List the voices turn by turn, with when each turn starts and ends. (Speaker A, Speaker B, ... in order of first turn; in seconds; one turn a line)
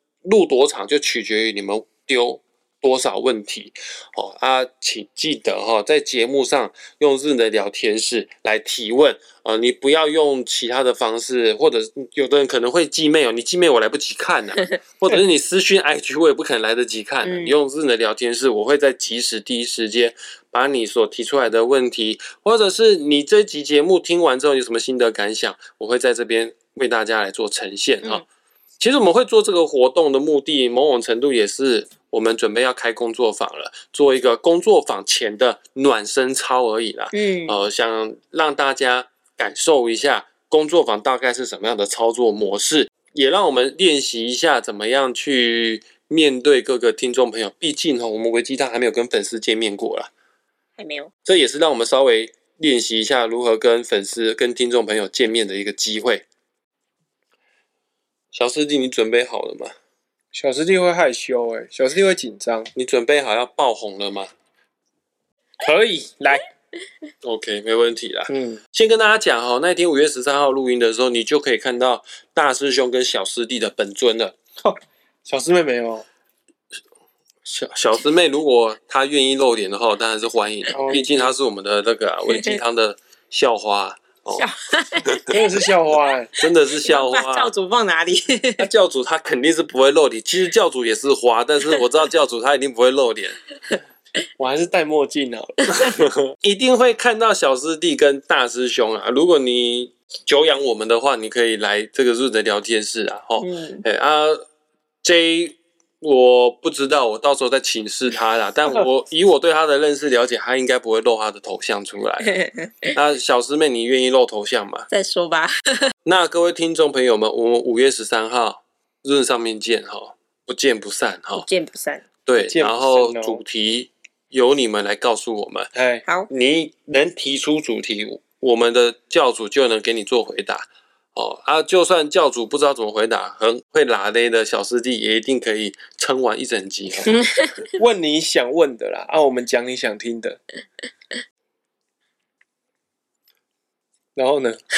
Speaker A: 0.2-28.2
Speaker B: 17.2-17.6
Speaker A: 28.8-50.1
Speaker B: 37.1-37.6
Speaker B: 50.8-51.1
Speaker A: 51.2-56.2
Speaker A: 58.3-59.7
Speaker C: 60.3-62.7
Speaker A: 62.7-64.3
Speaker C: 65.6-66.3
Speaker A: 67.2-74.3
Speaker C: 68.3-68.6
Speaker C: 75.2-76.0
Speaker A: 77.4-84.5
Speaker B: 80.7-81.0
Speaker C: 80.7-81.0
Speaker B: 82.3-82.5
Speaker B: 84.3-85.5
Speaker A: 85.1-85.3
Speaker C: 85.3-86.3
Speaker A: 86.4-87.5
Speaker B: 86.8-88.7
Speaker A: 88.6-93.5
Speaker C: 94.4-95.5
Speaker A: 96.4-104.4
Speaker B: 103.4-103.8
Speaker A: 105.0-112.4
Speaker B: 112.3-112.9
Speaker A: 112.9-114.9
Speaker B: 114.9-115.9
Speaker A: 116.0-121.5
Speaker B: 121.4-122.1
Speaker A: 122.2-125.7
Speaker C: 122.3-123.4
Speaker C: 125.7-126.0
Speaker A: 126.3-137.2
Speaker B: 137.1-137.7
Speaker C: 137.8-140.4
Speaker C: 144.2-144.6